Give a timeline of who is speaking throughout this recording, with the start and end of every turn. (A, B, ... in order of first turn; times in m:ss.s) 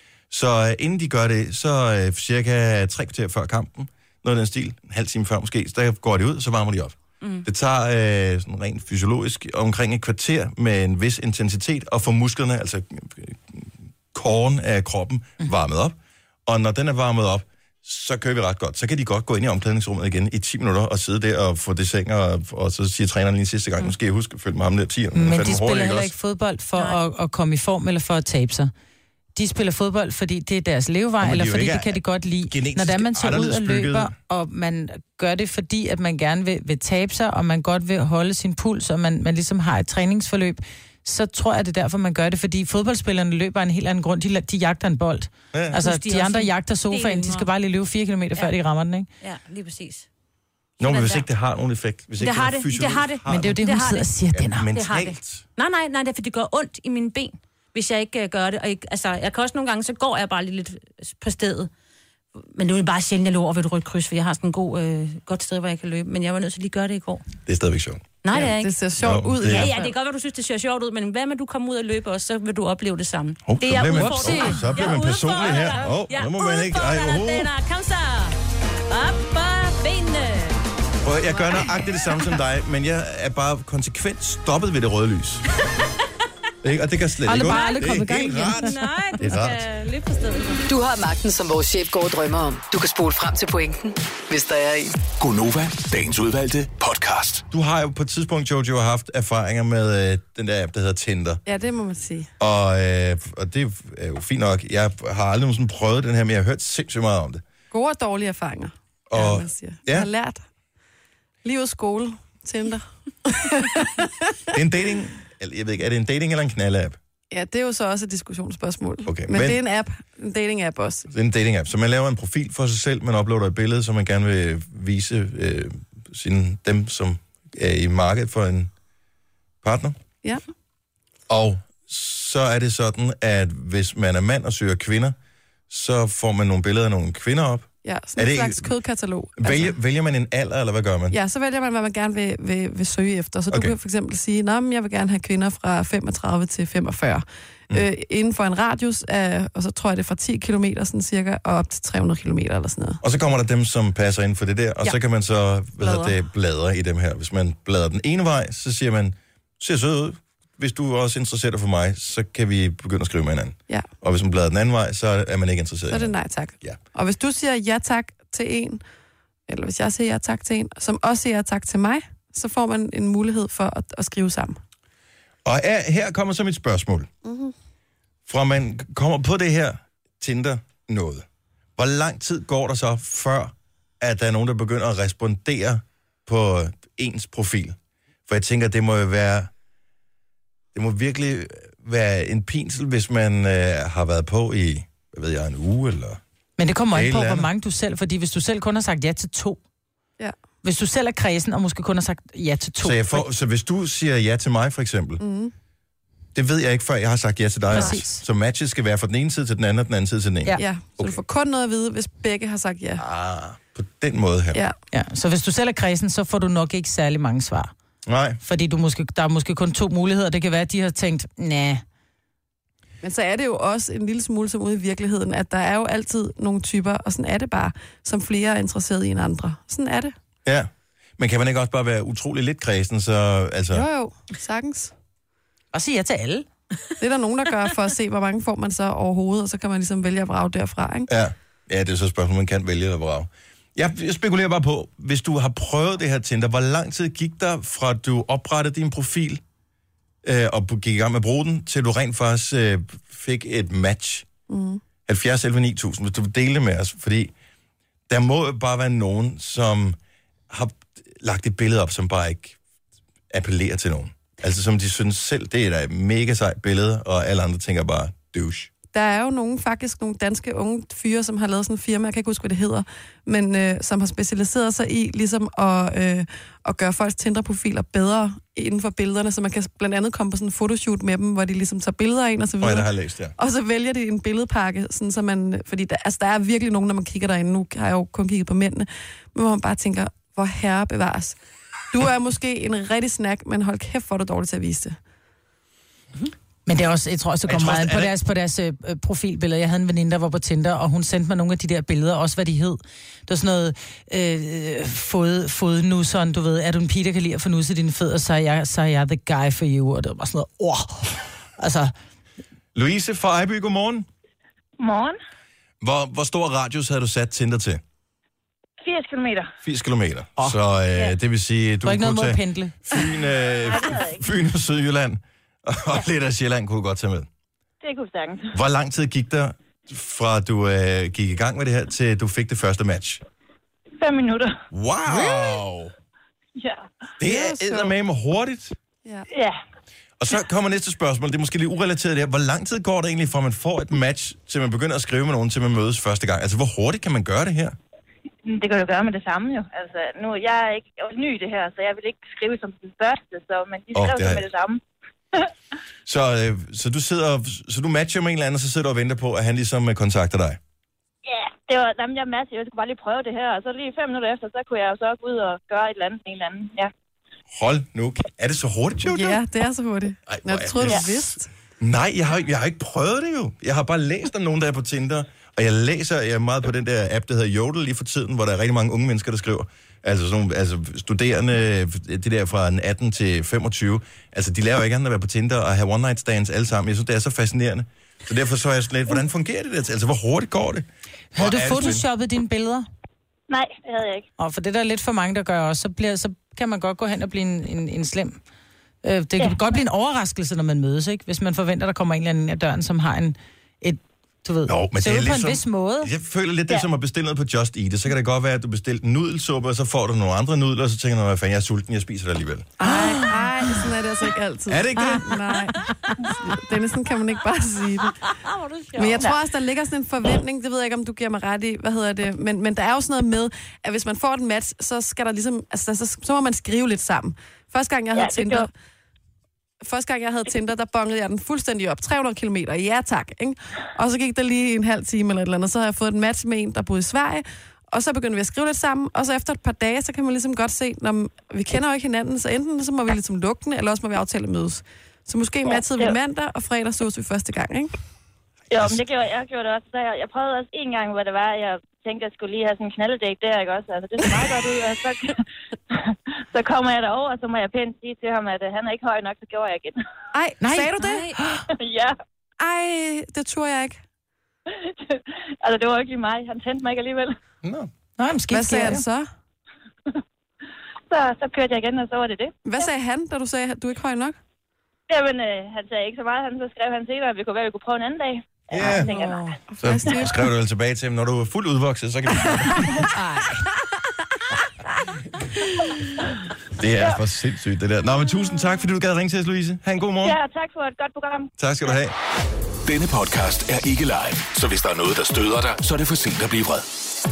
0:00.3-0:16.0 A
0:07.2-0:07.4 B
0:16.5-0:26.1 A
0:25.1-0:28.7 C
0:29.3-0:49.1 C
0:31.2-0:34.1 A
0:45.5-0:45.8 A
0:45.7-0:47.5 B
0:49.2-0:50.1 B
0:50.8-0:53.6 A
0:50.8-0:51.3 B
0:52.2-0:54.1 B
0:53.3-0:54.6 C
0:54.3-0:55.4 A
0:54.7-1:01.7 B
1:02.5-1:07.2 B
1:07.4-1:08.0 A
1:08.2-1:08.8 B
1:08.3-1:09.9 D
1:09.0-1:09.7 A
1:09.5-1:18.4 B
1:13.4-1:17.5 A
1:13.9-1:14.6 C
1:18.9-1:20.6 B
1:21.0-1:25.4 A
1:21.3-1:21.7 B
1:26.6-1:29.6 A
1:27.2-1:28.8 C
1:27.4-1:30.6 B
1:30.7-1:35.0 E
1:35.1-1:37.4 F
1:37.5-1:41.4 A
1:41.4-1:42.3 D
1:42.4-1:47.4 A
1:47.7-1:50.4 D
1:49.1-1:50.1 A
1:51.4-1:54.5 D
1:54.5-1:57.0 A
1:57.3-2:01.1 D
1:59.0-1:59.6 A
2:01.1-2:08.7 A
2:09.6-2:10.0 A
2:11.3-2:15.2 A
2:15.7-2:18.7 A
2:17.8-2:19.7 D
2:19.4-2:21.2 A
2:21.1-2:33.0 D
2:33.0-2:46.8 A
2:35.8-2:36.1 D
2:45.9-2:48.8 D
2:49.5-2:54.6 D
2:55.4-2:57.1 A
2:57.2-2:57.5 D
2:58.3-3:01.2 A
3:01.8-3:07.8 A
3:08.3-3:09.5 A
3:10.7-3:16.2 A
3:16.6-3:19.6 C
3:16.9-3:17.5 A
3:20.6-3:23.2 C
3:22.8-3:25.2 A
3:25.2-3:25.5 D
3:26.3-3:31.2 A
3:27.7-3:28.2 C
3:27.7-3:28.0 D
3:30.6-3:33.0 D
3:33.0-3:34.6 A
3:34.9-3:37.7 C
3:38.0-3:38.4 A
3:38.4-3:41.8 C
3:43.0-3:50.1 D
3:50.4-3:53.8 A
3:53.7-3:54.9 D
3:55.7-3:56.5 C
3:57.0-4:01.1 D
4:01.1-4:09.4 A
4:10.2-4:14.2 A
4:14.5-4:14.8 D
4:15.0-4:17.3 A
4:18.1-4:20.0 A
4:20.5-4:22.6 A
4:23.3-4:28.7 A
4:28.9-4:51.4 D
4:42.6-4:43.3 A
4:51.9-4:55.0 D
4:56.6-5:11.9 C
4:57.5-4:58.1 A
5:12.7-5:14.0 A
5:14.8-5:15.2 G
5:15.8-5:17.8 A
5:18.8-5:19.5 G
5:19.6-5:27.3 A
5:21.8-5:22.8 C
5:23.6-5:24.2 G
5:27.8-5:28.5 G
5:28.5-5:33.2 A
5:34.0-5:34.6 G
5:34.7-5:35.9 A
5:36.6-5:36.9 G
5:37.2-5:38.8 A
5:37.2-5:37.9 D
5:39.3-5:39.6 G
5:40.2-5:47.8 A
5:48.4-5:54.8 G
5:53.9-5:54.4 A
5:56.0-6:00.6 A
6:01.2-6:06.9 G
6:07.5-6:09.4 A
6:09.0-6:11.5 D
6:10.3-6:32.0 A
6:31.3-6:32.9 C
6:33.5-6:34.2 G
6:34.4-6:38.4 C
6:39.0-6:46.1 C
6:44.6-6:52.8 A
6:52.8-6:58.3 D
6:52.8-6:53.3 C
6:54.7-6:55.5 A
6:58.3-6:59.3 B
6:58.9-7:08.7 D
7:08.1-7:08.7 G
7:09.8-7:27.9 D
7:25.7-7:26.2 G
7:28.7-7:40.0 G
7:40.3-7:41.3 D
7:40.6-7:41.7 C
7:41.0-7:41.4 B
7:41.7-7:42.2 G
7:42.6-7:44.0 D
7:44.7-7:47.4 G
7:47.6-7:47.9 A
7:48.2-7:49.0 C
7:48.5-7:49.3 D
7:51.1-7:52.5 G
7:52.6-7:54.4 D
7:55.1-7:59.6 G
7:58.7-7:59.1 A
7:58.8-8:00.5 D
7:59.8-8:03.1 A
8:03.1-8:03.7 C
8:06.8-8:10.4 A
8:10.2-8:11.5 G
8:11.6-8:12.1 A
8:12.8-8:16.8 F